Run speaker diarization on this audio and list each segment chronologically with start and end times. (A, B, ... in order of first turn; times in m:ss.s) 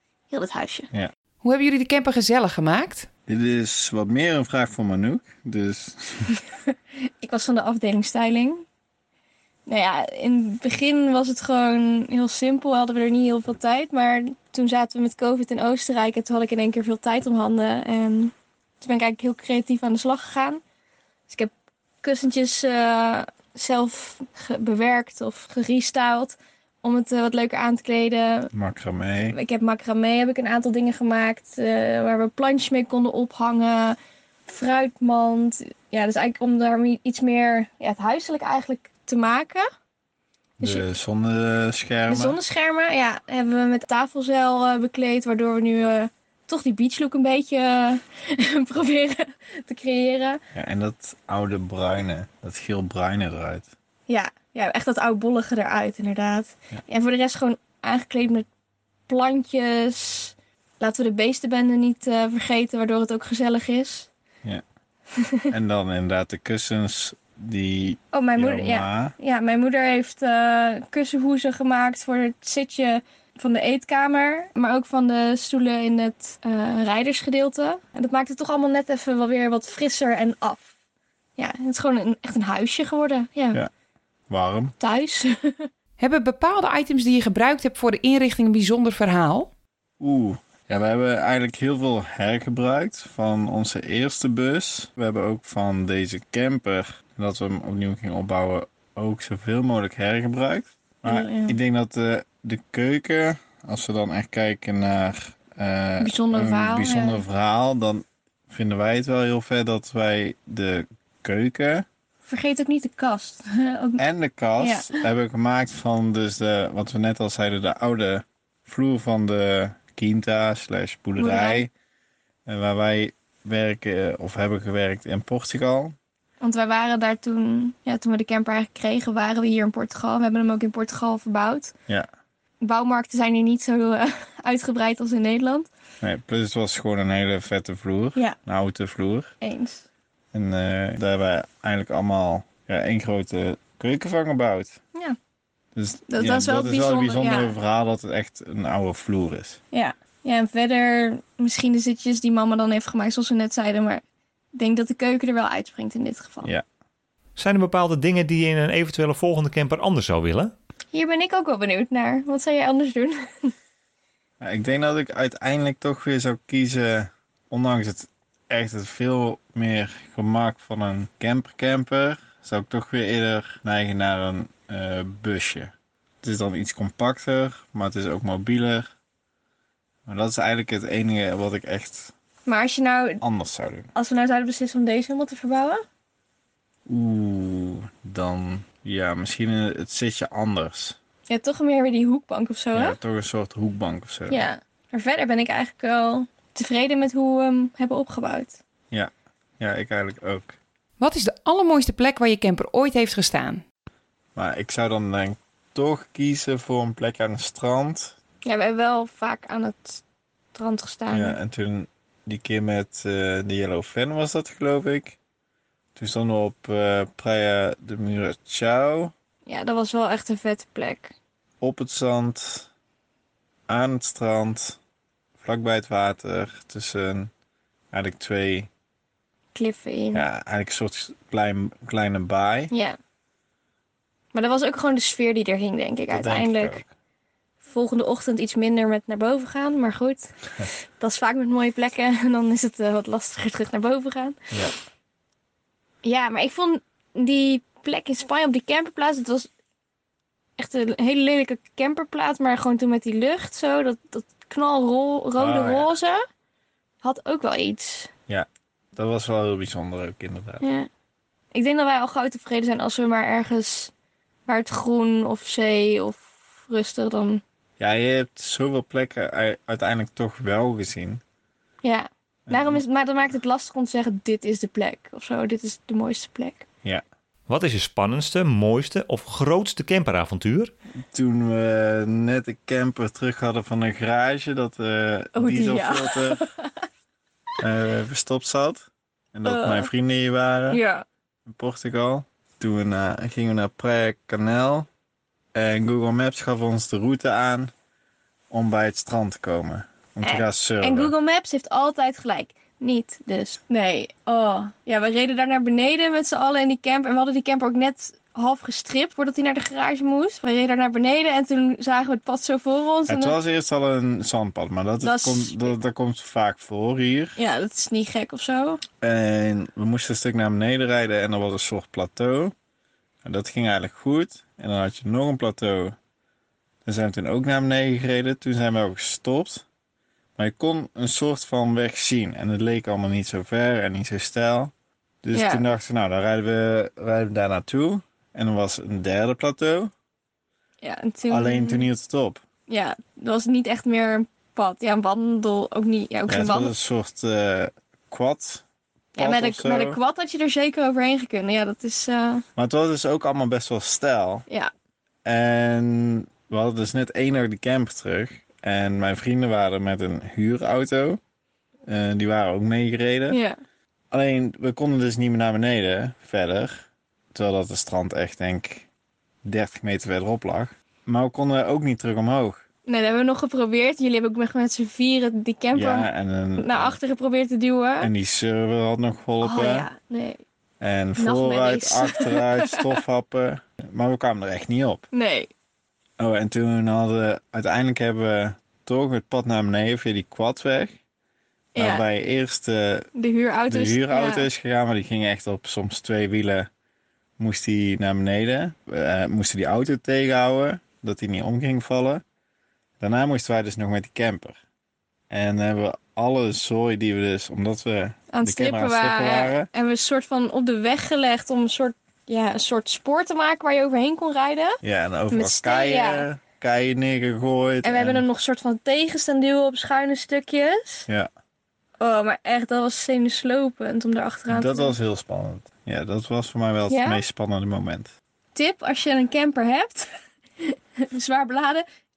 0:00.3-0:00.9 A
0:01.4-0:03.1 B
0:03.3-0:06.3 C
0:07.2-0:08.6 A
0:09.7-0:20.6 A
0:21.3-0:28.5 A
0:28.5-0:29.4 C
0:29.3-0:39.6 A
0:40.6-0:40.8 A
0:40.6-0:42.4 C
0:42.1-0:50.4 A
0:50.5-0:53.7 C
0:54.1-0:58.5 A
0:59.1-1:04.1 A
1:05.5-1:09.1 C
1:08.1-1:20.7 A
1:21.4-1:23.6 A
1:24.3-1:24.7 C
1:24.8-1:25.7 A
1:26.0-1:29.5 B
1:30.0-1:51.8 C
1:41.0-1:41.6 A
1:46.0-1:47.2 A
1:52.2-1:54.0 A
1:54.0-2:01.7 C
1:54.6-1:55.0 A
2:01.2-2:01.6 A
2:02.4-2:06.0 C
2:06.4-2:11.7 A
2:12.6-2:15.7 A
2:16.0-2:19.3 C
2:19.4-2:19.8 A
2:20.3-2:24.8 C
2:25.7-2:29.6 C
2:26.1-2:27.6 A
2:29.7-2:34.0 A
2:34.5-2:36.5 A
2:37.4-2:40.5 D
2:40.9-2:43.5 A
2:44.4-2:58.9 C
3:00.1-3:02.1 C
3:02.4-3:03.2 A
3:03.2-3:03.9 C
3:03.9-3:05.8 A
3:06.9-3:11.0 C
3:11.3-3:13.0 A
3:12.7-3:14.5 C
3:14.3-3:18.6 A
3:18.9-3:20.6 C
3:21.0-3:23.6 B
3:24.4-3:28.2 C
3:28.4-3:30.0 A
3:30.5-3:31.4 A
3:31.1-3:35.2 C
3:36.0-3:39.1 C
3:39.4-3:41.1 A
3:41.6-3:42.7 C
3:43.7-3:44.8 C
3:45.4-3:47.3 C
3:47.9-3:48.7 C
3:49.5-3:50.2 A
3:50.1-3:52.7 C
3:52.7-3:53.0 A
3:54.3-3:56.8 A
3:56.1-3:56.9 C
3:57.6-4:00.3 A
4:01.0-4:04.4 A
4:06.0-4:09.5 A
4:10.6-4:16.2 A
4:15.4-4:15.9 C
4:17.0-4:18.1 A
4:18.3-4:20.6 C
4:20.6-4:20.9 A
4:21.5-4:23.9 A
4:24.4-4:27.4 A
4:27.8-4:31.2 C
4:31.8-4:36.6 A
4:32.5-4:32.8 C
4:37.5-4:40.7 D
4:41.1-4:46.4 C
4:45.3-4:46.7 A
4:47.6-4:50.8 C
4:49.4-4:49.9 A
4:50.7-4:51.0 A
4:51.4-4:54.9 C
4:55.5-4:57.7 C
4:58.5-5:01.1 C
5:00.2-5:13.4 A
5:13.1-5:17.4 C
5:15.0-5:15.7 A
5:17.4-5:18.8 A
5:19.0-5:22.5 C
5:23.2-5:26.0 C
5:26.8-5:29.6 C
5:30.4-5:39.9 C
5:35.3-5:35.6 A
5:40.8-5:41.9 A
5:41.3-5:42.4 C
5:42.7-5:46.7 A
5:46.3-5:48.6 C
5:49.2-5:50.0 C
5:49.2-5:52.4 A
5:52.6-5:54.5 C
5:55.2-6:01.2 C
6:01.8-6:03.4 C
6:03.3-6:03.6 A
6:04.1-6:08.9 C
6:09.4-6:12.6 C
6:12.8-6:18.1 A
6:15.7-6:17.0 C
6:18.0-6:19.9 C
6:19.4-6:20.4 A
6:20.8-6:25.0 C
6:21.2-6:22.9 A
6:25.1-6:25.5 A
6:26.2-6:31.0 C
6:31.7-6:32.0 A
6:31.8-6:33.1 C
6:33.2-6:34.5 A
6:33.7-6:36.7 C
6:37.4-6:42.2 C
6:43.0-6:44.6 C
6:45.3-6:49.7 C
6:48.3-6:56.3 A
6:54.8-6:58.2 C
6:57.8-7:01.1 A
7:02.0-7:05.0 A
7:04.5-7:08.1 C
7:06.9-7:07.2 A
7:08.5-7:10.1 A
7:10.6-7:11.8 A